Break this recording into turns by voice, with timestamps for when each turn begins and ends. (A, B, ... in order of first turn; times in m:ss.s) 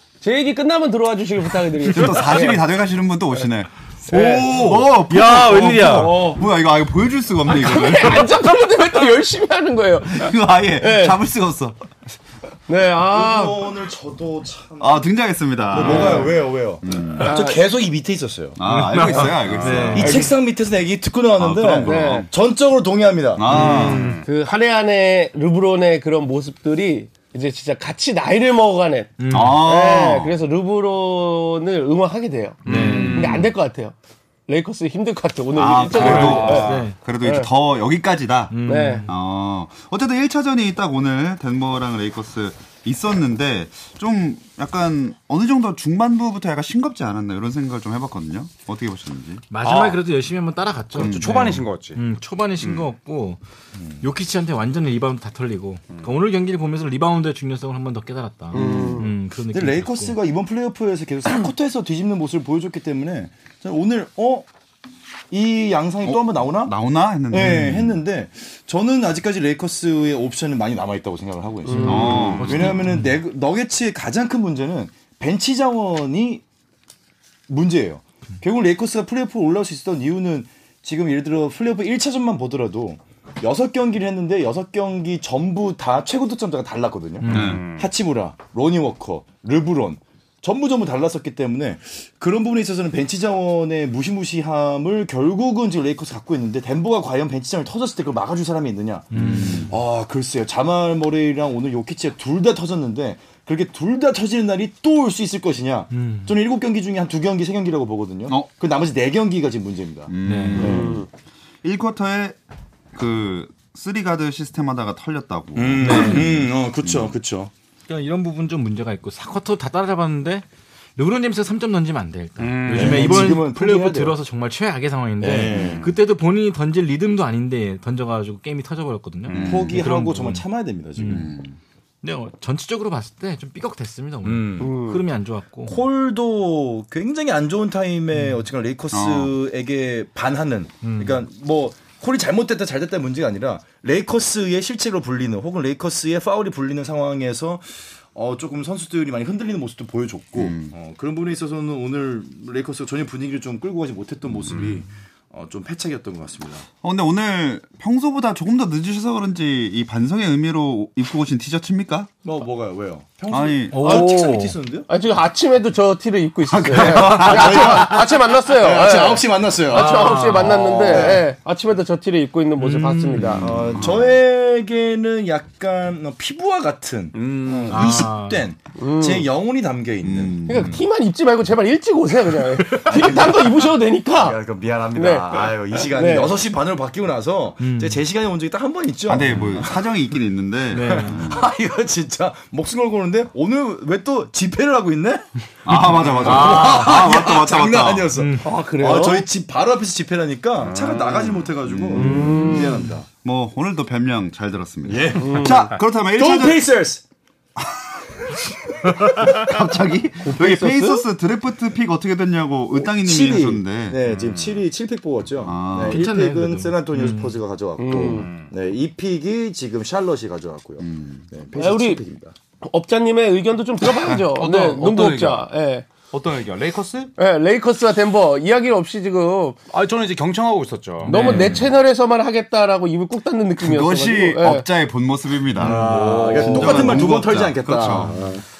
0:00.2-0:02.6 A
0:01.9-0:08.3 B
0:04.1-0:04.6 A
0:04.1-0:06.2 C
0:04.3-0:04.6 D
0:05.9-0:06.4 D
0:07.5-0:11.2 A
0:10.1-0:11.8 B
0:12.7-0:13.7 A
0:13.0-0:15.1 D
0:14.8-0:17.3 B
0:15.7-0:19.3 D
0:17.2-0:17.6 A
0:18.6-0:20.3 B
0:18.7-0:20.3 C
0:19.2-0:20.0 E
0:19.9-0:23.7 D
0:21.4-0:22.3 B
0:21.8-0:22.3 A
0:23.4-0:24.1 B
0:23.5-0:24.2 C
0:23.5-0:24.3 E
0:24.2-0:33.9 A
0:29.2-0:29.6 C
0:29.3-0:30.3 B
0:32.7-0:33.3 C
0:32.7-0:33.4 E
0:32.7-0:33.5 B
0:34.5-0:37.5 A
0:35.6-0:49.4 B
0:35.7-0:36.9 E
0:36.0-0:37.0 C
0:38.5-0:39.1 C
0:38.6-0:39.1 A
0:49.5-0:53.4 C
0:49.6-0:50.0 E
0:51.0-0:52.0 E
0:51.0-0:51.4 B
0:52.6-0:52.9 E
0:54.0-1:00.2 C
0:58.5-1:04.5 D
0:58.5-0:59.1 A
1:05.3-1:06.7 D
1:06.0-1:08.0 B
1:07.3-1:16.4 D
1:07.4-1:07.8 C
1:11.7-1:12.2 A
1:11.8-1:13.2 C
1:11.8-1:12.8 B
1:17.5-1:50.9 D
1:27.2-1:27.6 C
1:27.3-1:27.6 B
1:27.3-1:27.9 E
1:39.1-1:39.7 C
1:39.2-1:39.7 B
1:45.9-1:46.4 C
1:50.1-1:51.0 B
1:50.2-1:50.9 C
1:50.6-1:51.1 A
1:51.6-1:52.4 B
1:52.9-1:57.1 B
1:55.6-1:57.5 D
1:55.8-1:56.4 C
1:57.9-2:00.4 C
2:01.0-2:10.4 C
2:02.4-2:03.3 E
2:02.7-2:04.1 D
2:05.2-2:05.9 D
2:05.4-2:05.8 B
2:09.3-2:09.6 E
2:09.3-2:09.8 B
2:09.4-2:11.4 D
2:11.0-2:11.3 C
2:11.1-2:11.6 B
2:12.0-2:15.8 C
2:14.2-2:14.7 D
2:14.6-2:15.0 A
2:15.7-2:36.7 D
2:18.2-2:18.4 C
2:18.9-2:19.3 B
2:20.8-2:21.2 C
2:30.4-2:30.7 B
2:36.8-2:42.1 B
2:42.2-2:44.9 D
2:43.3-2:44.0 B
2:43.7-2:44.6 C
2:43.8-2:44.3 A
2:44.9-2:53.5 A
2:46.5-2:48.0 B
2:47.0-2:51.3 D
2:49.7-2:51.2 C
2:52.6-2:53.4 C
2:53.2-2:54.2 B
2:53.3-3:00.8 D
2:57.1-2:58.1 E
2:57.7-2:58.5 C
2:58.8-2:59.3 A
3:00.0-3:00.8 B
3:00.4-3:04.4 A
3:02.7-3:03.0 C
3:02.8-3:03.6 D
3:04.1-3:09.8 D
3:04.9-3:06.4 A
3:07.6-3:08.0 C
3:09.1-3:11.4 B
3:10.7-3:11.2 C
3:10.9-3:23.1 D
3:15.7-3:18.1 B
3:16.2-3:17.1 C
3:18.2-3:18.5 C
3:18.4-3:19.3 A
3:20.6-3:22.0 E
3:21.9-3:22.9 A
3:23.2-3:26.6 B
3:24.9-3:27.0 D
3:25.2-3:25.7 A
3:29.2-3:34.0 B
3:30.2-3:31.0 A
3:32.8-3:42.4 D
3:34.1-3:34.5 E
3:35.4-3:36.0 B
3:35.9-3:37.4 C
3:37.8-3:38.3 A
3:37.9-3:38.5 E
3:40.8-3:41.3 B
3:41.6-3:42.0 A
3:42.6-3:45.9 A
3:44.3-3:45.5 E
3:46.1-3:47.1 E
3:47.2-3:49.6 A
3:49.7-3:51.5 E
3:51.1-3:51.7 C
3:51.1-3:54.7 A
3:53.6-3:58.2 B
3:55.6-3:58.4 D
3:55.6-3:56.2 C
3:55.8-3:57.0 E
3:56.2-3:57.1 A